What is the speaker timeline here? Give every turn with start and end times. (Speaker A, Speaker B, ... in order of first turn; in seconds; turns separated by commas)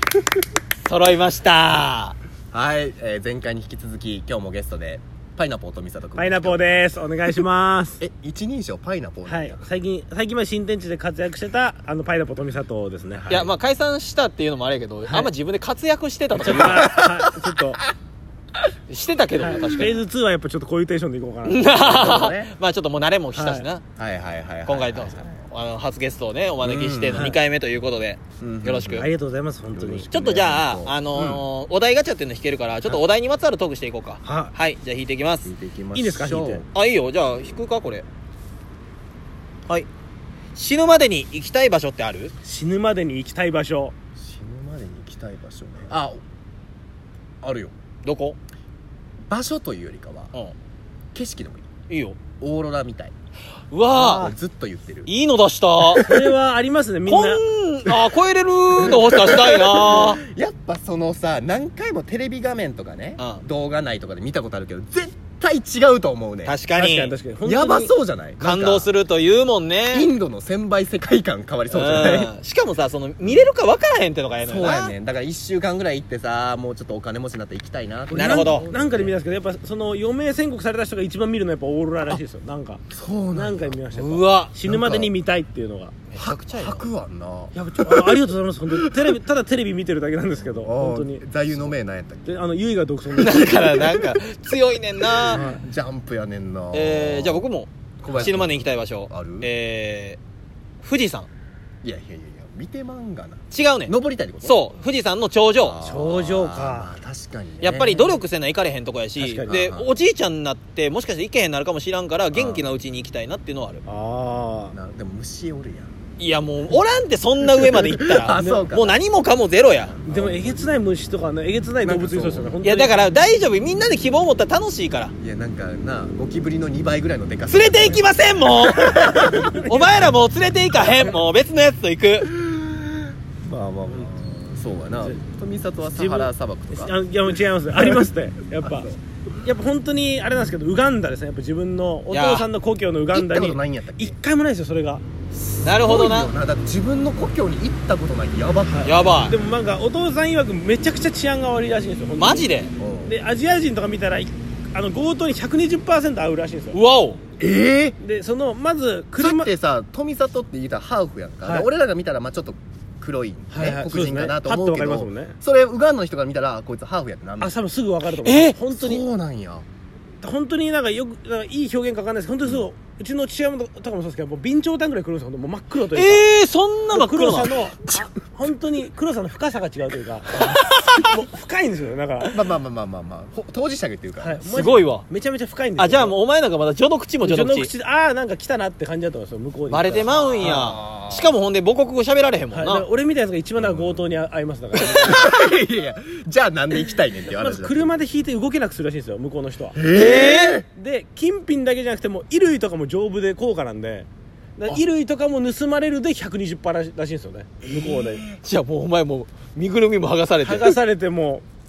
Speaker A: 0.8-2.1, Speaker B: 2.5-7.4, Speaker C: 6.2-8.0, Speaker B: 8.0-9.6, Speaker C: 9.3-13.5, Speaker A: 13.3-17.0, Speaker C: 15.1-15.3, Speaker C: 16.4-17.8, Speaker B: 16.5-17.3, Speaker A: 18.9-20.0, Speaker C: 19.4-22.3, Speaker A: 21.4-23.8, Speaker B: 21.8-22.5, Speaker C: 23.3-23.7, Speaker B: 24.0-25.4, Speaker A: 24.7-29.1, Speaker B: 26.6-27.4, Speaker C: 27.1-27.4, Speaker B: 28.4-29.1, Speaker C: 29.0-30.1, Speaker B: 29.7-31.4, Speaker A: 30.1-35.5, Speaker C: 34.2-34.5, Speaker B: 35.5-36.7, Speaker C: 35.9-36.6, Speaker A: 36.7-38.0, Speaker A: 40.6-42.3, Speaker C: 42.4-43.9, Speaker B: 44.2-46.2, Speaker B: 47.4-47.7, Speaker A: 48.0-48.4, Speaker B: 49.3-50.3, Speaker B: 51.1-51.6, Speaker A: 51.9-52.2, Speaker B: 52.4-53.1, Speaker A: 53.7-54.3, Speaker B: 53.9-55.1, Speaker A: 55.1-56.0, Speaker B: 55.9-56.3, Speaker C: 56.0-57.4, Speaker A: 57.1-60.2, Speaker B: 58.8-66.6, Speaker A: 63.2-63.4, Speaker A: 66.5-67.1, Speaker C: 66.8-67.9, Speaker B: 67.4-68.9, Speaker A: 68.4-70.1, Speaker B: 69.9-72.3, Speaker A: 71.7-74.9, Speaker B: 74.4-79.2, Speaker C: 78.1-82.8, Speaker A: 78.1-78.7, Speaker B: 82.9-83.8, Speaker C: 83.3-85.9, Speaker A: 83.9-84.5, Speaker B: 84.6-85.1, Speaker A: 86.1-86.8, Speaker B: 86.2-89.2, Speaker C: 87.5-91.8, Speaker B: 90.5-92.4, Speaker C: 92.3-93.8, Speaker A: 93.2-95.4, Speaker B: 93.8-94.2, Speaker B: 95.1-97.5, Speaker C: 95.3-95.6, Speaker A: 96.7-100.2, Speaker B: 98.0-99.5, Speaker A: 100.8-101.3, Speaker B: 101.8-104.8, Speaker A: 103.5-105.8, Speaker B: 105.6-108.0, Speaker C: 105.8-107.0, Speaker A: 107.6-113.8, Speaker C: 107.9-108.2, Speaker C: 109.2-109.5, Speaker B: 109.5-110.0, Speaker B: 112.3-112.7, Speaker C: 113.9-114.8, Speaker B: 114.7-115.9, Speaker A: 116.2-120.0, Speaker B: 117.4-119.0, Speaker C: 118.3-118.7, Speaker B: 120.0-120.7, Speaker C: 120.1-123.0, Speaker B: 121.8-122.5, Speaker A: 122.6-125.1, Speaker B: 125.2-128.0, Speaker A: 127.5-132.3, Speaker B: 128.6-129.5, Speaker C: 129.2-129.8, Speaker B: 132.4-136.9, Speaker C: 135.8-138.9, Speaker B: 137.8-138.1, Speaker B: 138.6-139.0, Speaker C: 139.4-145.0, Speaker A: 142.1-142.5, Speaker B: 143.1-144.2, Speaker A: 145.6-146.3, Speaker B: 145.6-149.0, Speaker C: 148.7-152.5, Speaker A: 148.8-149.3, Speaker A: 152.2-152.7, Speaker B: 152.8-153.2, Speaker C: 153.0-156.8, Speaker A: 156.7-157.2, Speaker B: 157.4-158.0, Speaker C: 158.0-159.5, Speaker B: 159.2-167.6, Speaker C: 161.4-161.7, Speaker C: 163.5-165.3, Speaker C: 167.4-169.0, Speaker A: 168.2-168.6, Speaker B: 168.7-169.7, Speaker C: 170.2-176.2, Speaker A: 175.8-177.6, Speaker C: 176.9-182.4, Speaker A: 180.3-181.0, Speaker B: 182.3-184.4, Speaker C: 184.2-186.2, Speaker A: 184.4-185.1, Speaker A: 185.8-187.7, Speaker C: 187.2-190.7, Speaker A: 189.7-192.9, Speaker B: 190.1-191.3, Speaker C: 192.5-195.3, Speaker B: 193.6-194.0, Speaker A: 194.8-195.2, Speaker B: 194.9-197.9, Speaker C: 197.2-199.8, Speaker B: 199.7-200.7, Speaker A: 199.9-200.6, Speaker C: 200.7-208.2, Speaker B: 207.6-208.4, Speaker A: 208.4-210.8, Speaker C: 210.4-211.4